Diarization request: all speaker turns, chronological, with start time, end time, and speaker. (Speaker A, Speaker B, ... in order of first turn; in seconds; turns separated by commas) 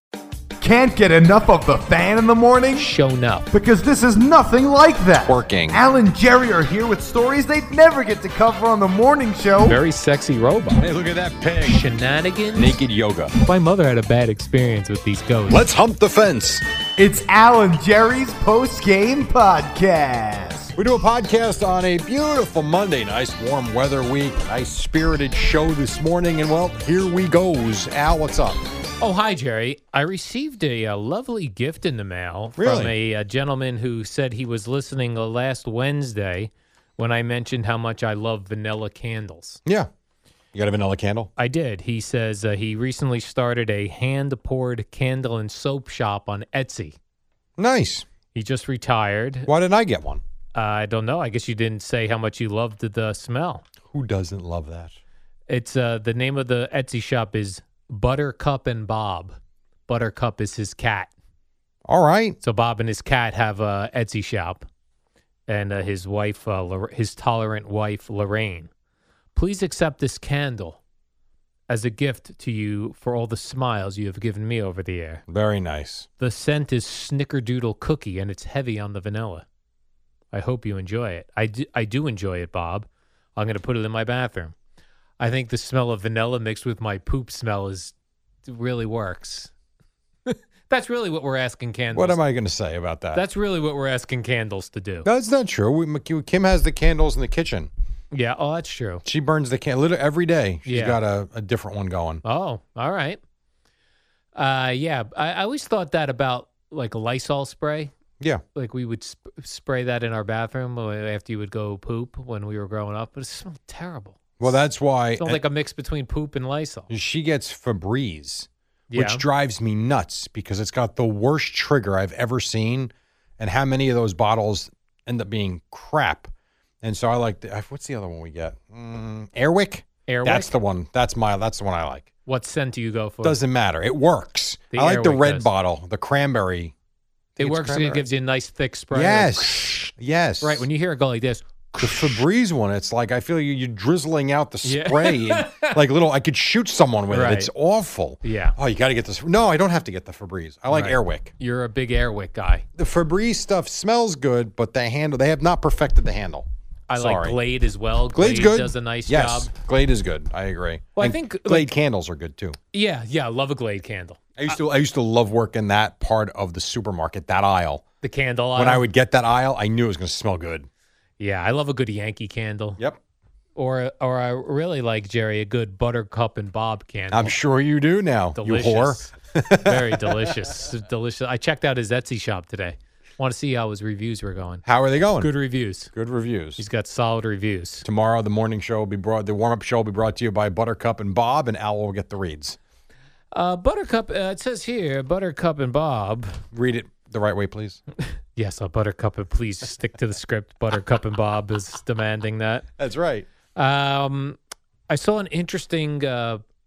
Speaker A: 0.6-2.9, Speaker B: 2.8-3.5, Speaker A: 3.5-9.8, Speaker C: 5.2-5.8, Speaker B: 9.6-10.9, Speaker C: 10.8-11.8, Speaker B: 11.6-12.8, Speaker C: 12.5-13.3, Speaker B: 13.4-15.6, Speaker C: 15.5-16.6, Speaker A: 17.0-20.7, Speaker C: 20.8-28.6, Speaker B: 29.0-39.6, Speaker C: 32.6-32.9, Speaker C: 39.6-39.9, Speaker C: 40.5-41.3, Speaker B: 41.4-46.9, Speaker C: 47.6-48.0, Speaker B: 48.3-49.5, Speaker C: 49.5-50.2, Speaker B: 50.5-53.6, Speaker C: 53.8-55.0, Speaker B: 55.5-59.4, Speaker B: 59.9-61.1, Speaker C: 61.9-62.4, Speaker B: 62.4-64.6, Speaker B: 65.5-68.7, Speaker B: 69.3-70.8, Speaker B: 71.7-75.2, Speaker C: 75.3-76.1, Speaker B: 76.2-79.5, Speaker B: 80.3-84.5, Speaker B: 85.2-87.9, Speaker B: 88.5-89.5, Speaker B: 90.2-92.2, Speaker C: 91.9-93.2, Speaker B: 93.1-95.1, Speaker C: 95.0-97.7, Speaker B: 98.1-99.0, Speaker C: 99.0-102.2, Speaker B: 100.7-101.0, Speaker B: 102.2-103.2, Speaker B: 104.3-107.9, Speaker B: 108.5-114.6, Speaker C: 114.4-115.4, Speaker B: 115.2-116.9, Speaker C: 116.9-126.3, Speaker B: 118.9-119.2, Speaker C: 126.8-132.1, Speaker B: 130.1-130.5, Speaker B: 132.2-133.4, Speaker C: 133.2-136.7, Speaker B: 134.7-135.5, Speaker C: 137.3-138.0, Speaker B: 137.4-139.8, Speaker C: 138.9-140.7, Speaker B: 140.4-142.2, Speaker C: 141.7-151.3, Speaker B: 144.6-145.8, Speaker B: 147.1-147.5, Speaker B: 148.2-148.6, Speaker B: 150.7-152.6, Speaker C: 152.7-157.4, Speaker B: 156.9-159.5, Speaker C: 158.1-162.6, Speaker B: 160.9-161.7, Speaker B: 162.7-164.3, Speaker C: 164.4-167.8, Speaker B: 168.0-168.8, Speaker C: 168.6-170.7, Speaker B: 171.2-172.8, Speaker B: 173.6-177.4, Speaker C: 177.1-180.4, Speaker B: 178.3-184.6, Speaker C: 184.6-185.3, Speaker B: 185.2-185.9, Speaker C: 185.9-186.6, Speaker B: 186.6-187.8, Speaker C: 187.8-192.6, Speaker B: 193.3-196.4, Speaker C: 196.5-197.8, Speaker B: 198.1-202.7, Speaker C: 202.8-203.3, Speaker B: 203.5-204.4, Speaker B: 204.9-206.4